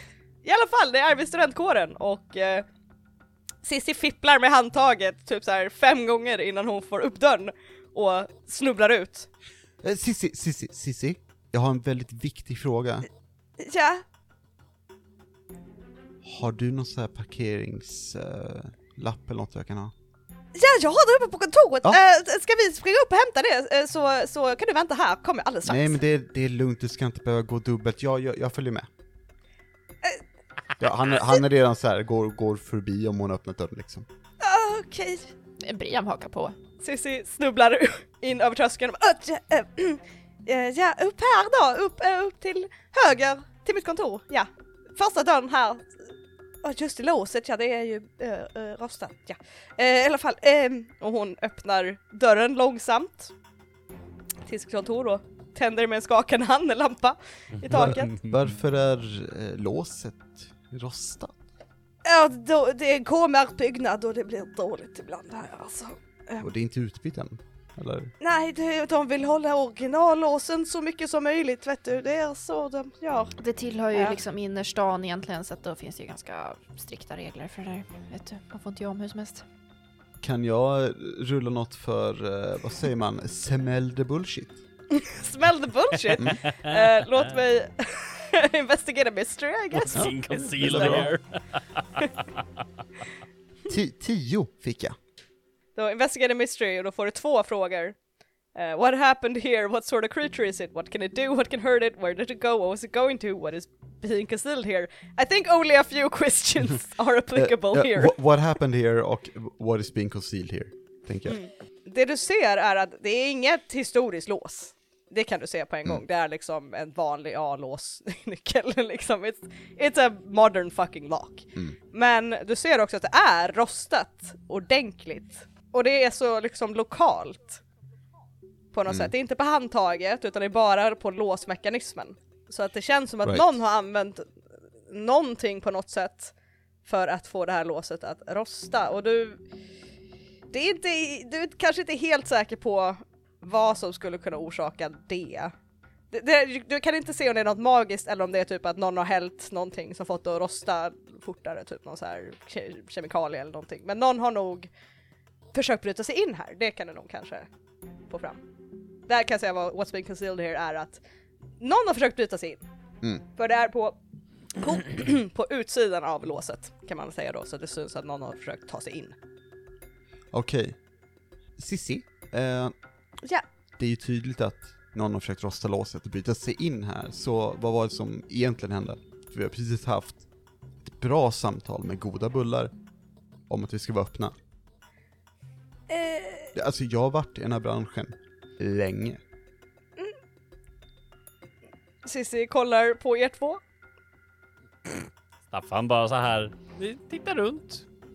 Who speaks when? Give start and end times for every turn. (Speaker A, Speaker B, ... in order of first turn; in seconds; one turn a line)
Speaker A: 0.4-2.6
Speaker A: 3.6-9.3
Speaker B: 9.8-13.1
Speaker A: 13.6-14.0
Speaker B: 16.2-19.9
Speaker A: 20.5-26.0
Speaker B: 25.6-28.9
Speaker B: 30.8-34.1
Speaker A: 34.4-35.3
Speaker C: 35.6-36.5
Speaker A: 36.8-46.1
Speaker A: 46.6-53.3
Speaker A: 54.4-58.2
Speaker D: 57.6-58.4
Speaker B: 57.7-61.4
Speaker A: 62.0-66.5
Speaker B: 66.4-68.1
Speaker A: 68.2-73.3
Speaker C: 73.4-79.4
Speaker A: 73.9-74.2
Speaker B: 80.2-84.6
Speaker A: 84.9-91.1
Speaker D: 86.1-87.3
Speaker D: 89.8-92.0
Speaker B: 89.9-91.1
Speaker B: 93.7-95.0
Speaker A: 95.8-98.0
Speaker A: 98.5-108.2
Speaker B: 107.3-111.4
Speaker A: 111.2-127.6
Speaker A: 128.7-134.3
Speaker A: 134.9-136.3
Speaker A: 136.8-139.4
Speaker A: 140.5-145.5
Speaker A: 146.1-154.7
Speaker A: 155.5-157.5
Speaker A: 158.1-158.4
Speaker A: 159.1-161.0
Speaker A: 161.6-162.6
Speaker A: 163.4-163.9
Speaker A: 164.6-169.1
Speaker B: 170.3-170.8
Speaker B: 171.6-172.7
Speaker B: 173.8-180.2
Speaker B: 180.8-182.7
Speaker B: 183.5-184.3
Speaker A: 185.9-186.5
Speaker B: 186.5-189.2
Speaker A: 192.0-193.6
Speaker D: 194.9-197.8